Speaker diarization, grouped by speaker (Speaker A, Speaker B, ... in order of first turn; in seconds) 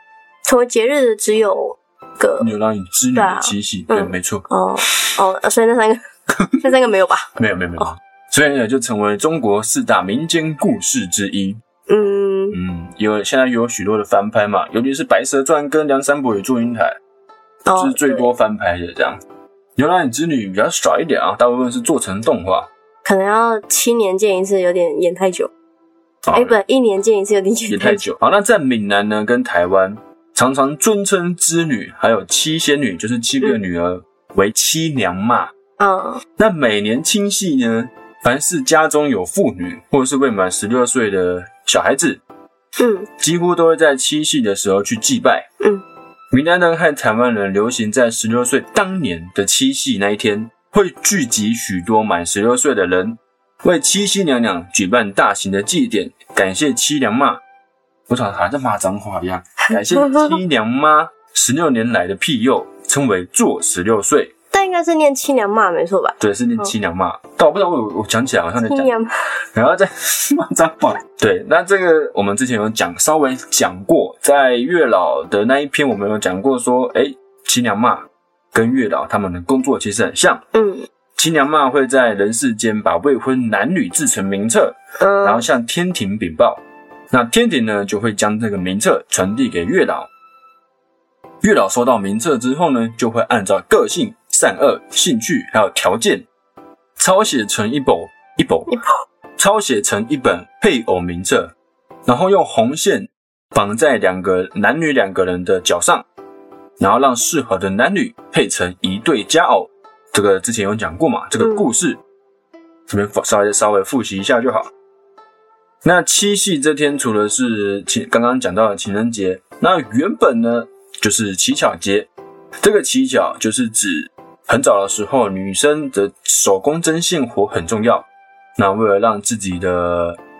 Speaker A: 0.5-2.5, 3.1-6.0, 6.6-7.9, 11.9-12.6, 17.6-18.3, 23.0-25.5, 26.3-28.0, 35.8-36.2, 42.8-43.1, 60.0-60.3, 64.5-66.7, 68.6-69.1, 80.5-80.8, 85.0-85.5, 111.4-111.7
Speaker B: 2.4-4.4, 7.4-11.6, 12.5-17.0, 17.8-19.2, 19.8-22.7, 26.2-26.6, 27.7-35.5, 36.4-42.2, 43.2-45.5, 46.3-57.4, 58.1-64.3, 66.2-68.9, 69.5-80.4, 81.2-90.1, 91.4-96.3, 97.0-98.7, 99.4-101.5, 102.0-106.0, 106.8-112.0, 112.9-114.7, 115.8-122.1, 122.6-130.2